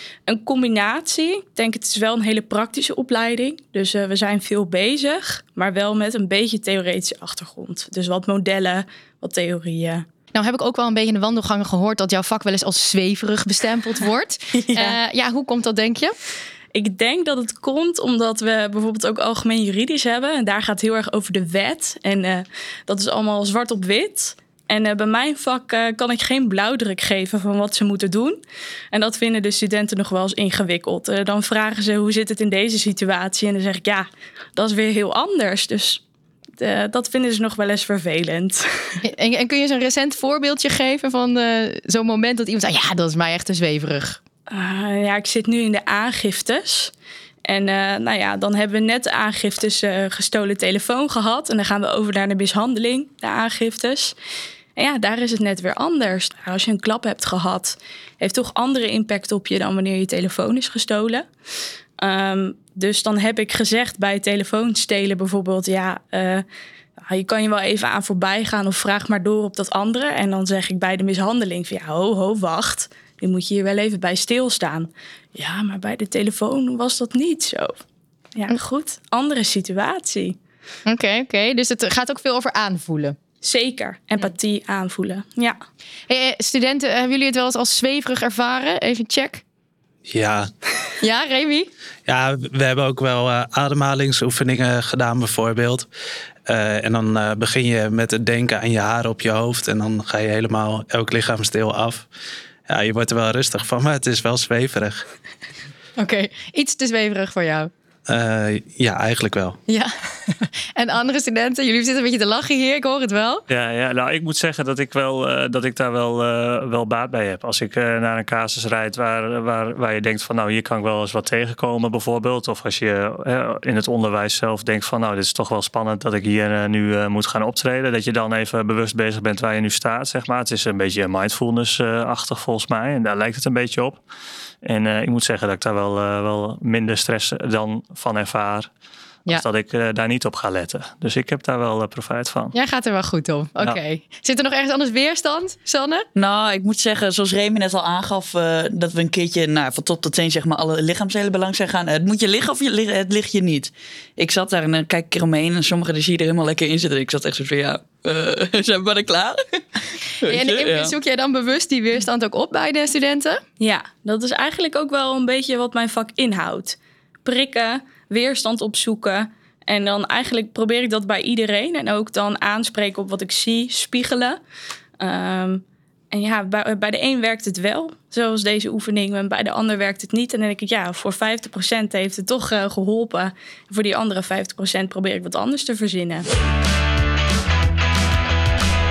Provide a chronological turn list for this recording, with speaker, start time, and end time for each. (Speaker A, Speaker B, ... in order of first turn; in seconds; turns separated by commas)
Speaker A: 0.3-10.1, Speaker B: 10.3-16.1, Speaker A: 16.7-28.4, Speaker A: 28.9-36.0, Speaker A: 36.6-39.0, Speaker B: 39.0-44.2, Speaker A: 44.5-46.9, Speaker A: 47.5-54.1, Speaker A: 54.8-61.2, Speaker A: 62.0-66.5, Speaker A: 67.0-77.8, Speaker A: 78.3-80.4, Speaker B: 80.9-83.2, Speaker A: 83.4-85.6, Speaker B: 86.1-89.4, Speaker C: 90.1-90.5, Speaker B: 91.0-91.7, Speaker C: 92.1-95.9, Speaker C: 96.5-102.1, Speaker C: 102.7-105.1, Speaker B: 106.0-107.7, Speaker C: 108.1-109.6, Speaker B: 109.7-113.5, Speaker D: 113.5-134.0, Speaker D: 134.6-138.7, Speaker D: 139.3-142.5, Speaker B: 142.5-146.1, Speaker E: 146.2-159.6, Speaker E: 160.2-160.9, Speaker B: 160.2-163.4, Speaker A: 163.6-174.4, Speaker A: 175.0-186.3